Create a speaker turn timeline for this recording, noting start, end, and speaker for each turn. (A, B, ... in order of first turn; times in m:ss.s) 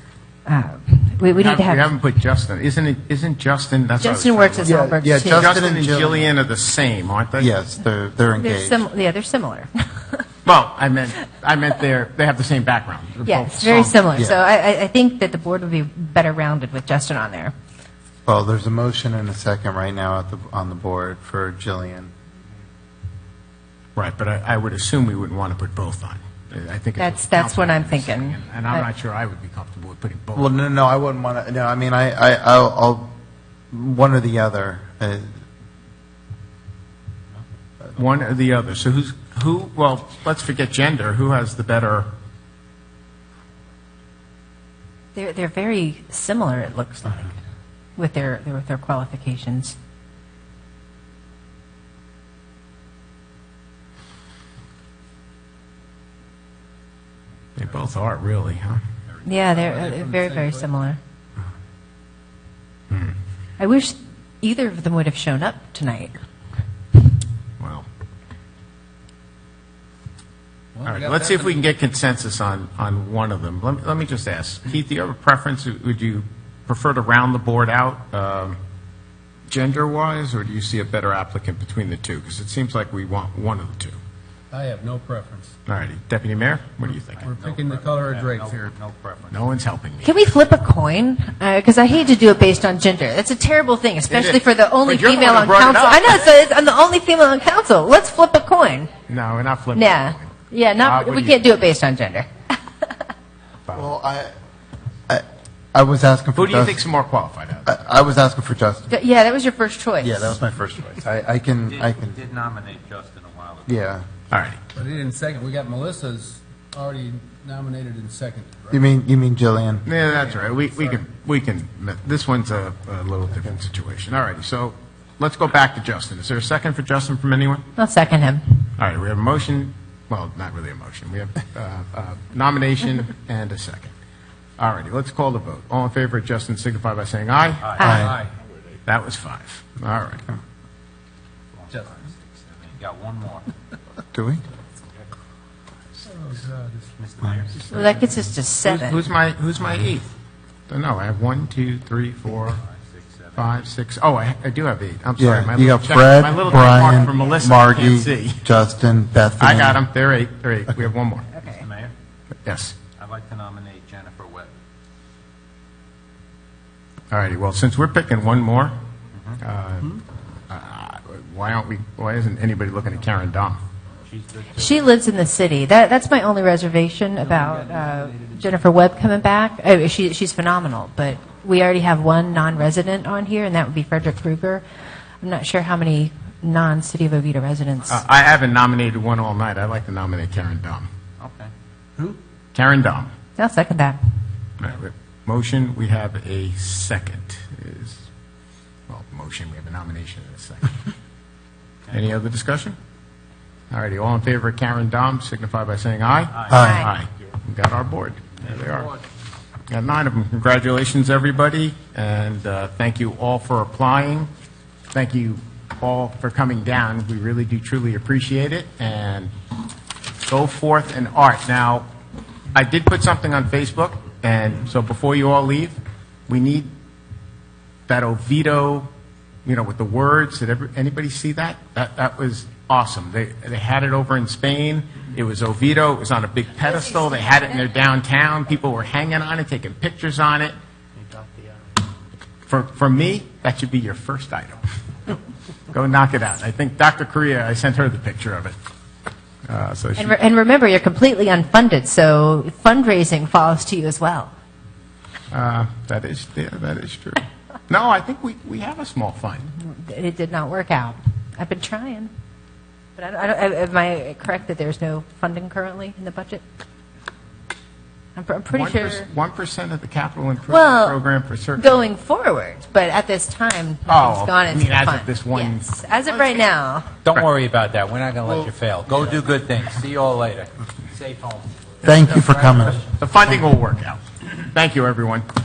0:00.5-0:01.9 A
0:01.3-0:04.8 B
0:04.0-0:05.6 A
0:04.6-0:06.3 C
0:05.3-0:07.5 B
0:07.4-0:08.8 C
0:08.4-0:10.2 A
0:10.4-0:14.0 B
0:13.3-0:17.6 A
0:18.3-0:22.1 C
0:24.0-0:30.5 B
0:27.0-0:28.9 A
0:30.4-0:33.1 C
0:33.7-0:35.3 C
0:38.0-0:42.1 B
0:45.2-0:47.4 A
0:48.0-0:49.8 A
0:57.6-0:58.8 B
0:59.1-0:59.6 D
0:59.2-1:01.0 A
0:59.5-1:00.7 E
1:02.9-1:03.2 B
1:03.6-1:06.2 A
1:07.6-1:07.9 B
1:10.8-1:11.6 E
1:10.8-1:18.6 B
1:19.5-1:24.0 B
1:24.5-1:25.6 E
1:25.7-1:27.3 B
1:27.2-1:28.7 E
1:27.2-1:29.6 D
1:29.3-1:30.2 B
1:30.0-1:38.9 A
1:34.1-1:36.2 B
1:39.1-1:41.4 B
1:39.8-1:42.3 A
1:43.7-1:43.9 B
1:43.7-1:44.3 C
1:45.1-1:46.8 C
1:46.4-1:47.7 B
1:47.7-1:48.9 C
1:48.9-1:50.4 A
1:50.0-1:52.2 C
1:51.6-1:53.8 D
1:53.6-1:54.1 C
1:54.3-1:54.6 B
1:54.7-1:58.8 E
1:58.7-1:59.9 C
1:59.9-2:07.6 B
2:00.3-2:00.7 E
2:07.8-2:08.6 A
2:08.8-2:13.9 B
2:14.6-2:17.9 B
2:17.6-2:18.0 D
2:17.8-2:18.2 A
2:17.8-2:18.1 C
2:17.9-2:18.3 E
2:18.9-2:20.3 B
2:21.5-2:23.5 D
2:21.7-2:22.0 E
2:24.1-2:24.4 C
2:26.0-2:26.9 E
2:27.0-2:27.8 D
2:27.7-2:29.0 A
2:28.6-2:30.1 B
2:30.7-2:32.6 B
2:32.5-2:33.7 D
2:33.4-2:38.4 B
2:35.2-2:39.8 C
2:39.4-2:41.3 B
2:41.4-2:41.6 A
2:41.4-2:41.9 D
2:42.4-2:42.8 B
2:43.0-2:44.6 D
2:47.1-2:48.8 B
2:49.4-2:53.6 B
2:54.1-2:54.8 D
2:54.6-3:04.6 A
2:57.2-2:58.6 E
3:05.2-3:08.0 A
3:07.9-3:10.9 B
3:11.2-3:11.5 D
3:12.5-3:13.1 B
3:13.4-3:14.0 A
3:14.6-3:18.0 B
3:18.9-3:20.8 B
3:21.9-3:22.8 B
3:23.7-3:29.0 B
3:26.5-3:26.9 C
3:26.5-3:26.9 A
3:29.7-3:34.3 B
3:34.9-3:39.3 B
3:40.3-3:41.9 B
3:42.5-3:45.8 B
3:46.3-3:46.7 B
3:47.9-3:48.9 B
3:49.4-4:00.5 B
3:57.0-3:57.4 A
4:02.5-4:05.2 B
4:05.7-4:08.6 B
4:09.5-4:10.2 B
4:10.0-4:14.3 A
4:15.3-4:19.5 B
4:19.5-4:22.1 A
4:23.0-4:26.4 A
4:28.2-4:29.1 A
4:28.5-4:31.8 B
4:30.5-4:31.0 A
4:31.6-4:37.0 A
4:33.9-4:36.4 B
4:37.0-4:41.5 D
4:41.8-4:42.8 C
4:41.9-4:45.3 B
4:42.5-4:42.7 D